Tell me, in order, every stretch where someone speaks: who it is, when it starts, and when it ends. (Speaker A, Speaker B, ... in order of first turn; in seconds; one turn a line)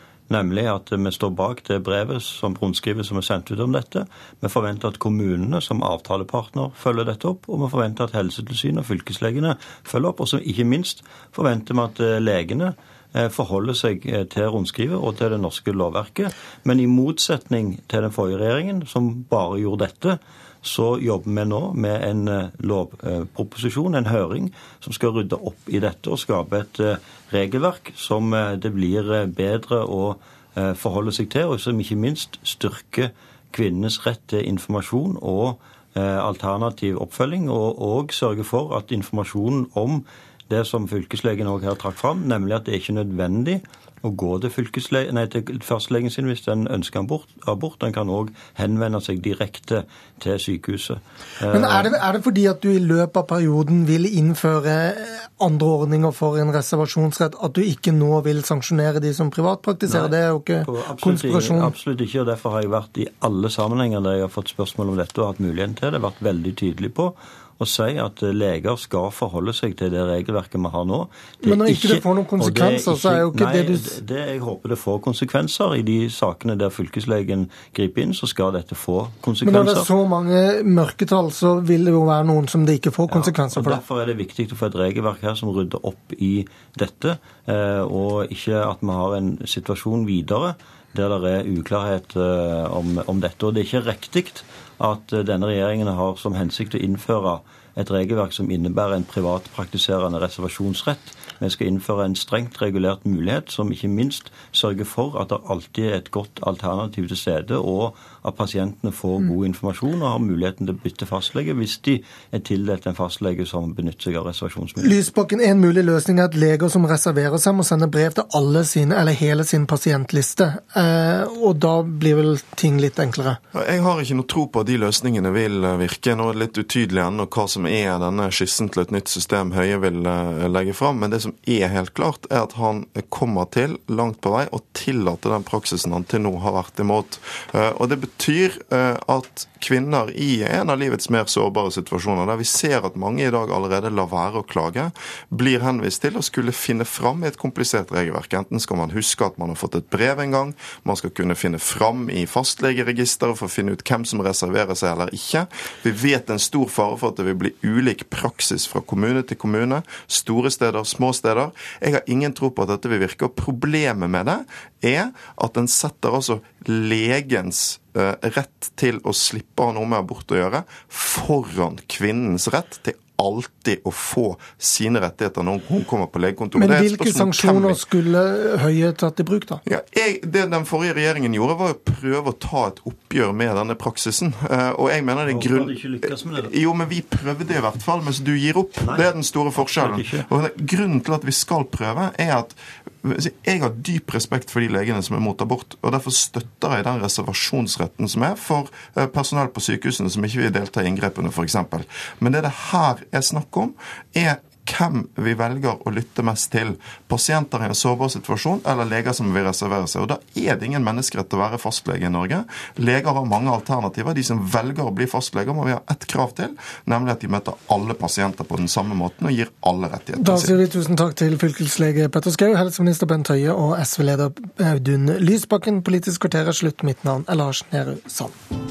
Speaker A: 0.3-52.0
Speaker B: 51.5-61.8
Speaker A: 59.9-79.9
Speaker B: 71.4-74.0
Speaker B: 79.4-83.8
Speaker A: 83.1-115.0
Speaker B: 114.8-123.4
Speaker C: 123.5-177.8
Speaker B: 176.5-179.6
Speaker C: 179.7-220.6
Speaker A: 185.2-186.5
Speaker A: 188.8-190.3
Speaker B: 220.2-228.3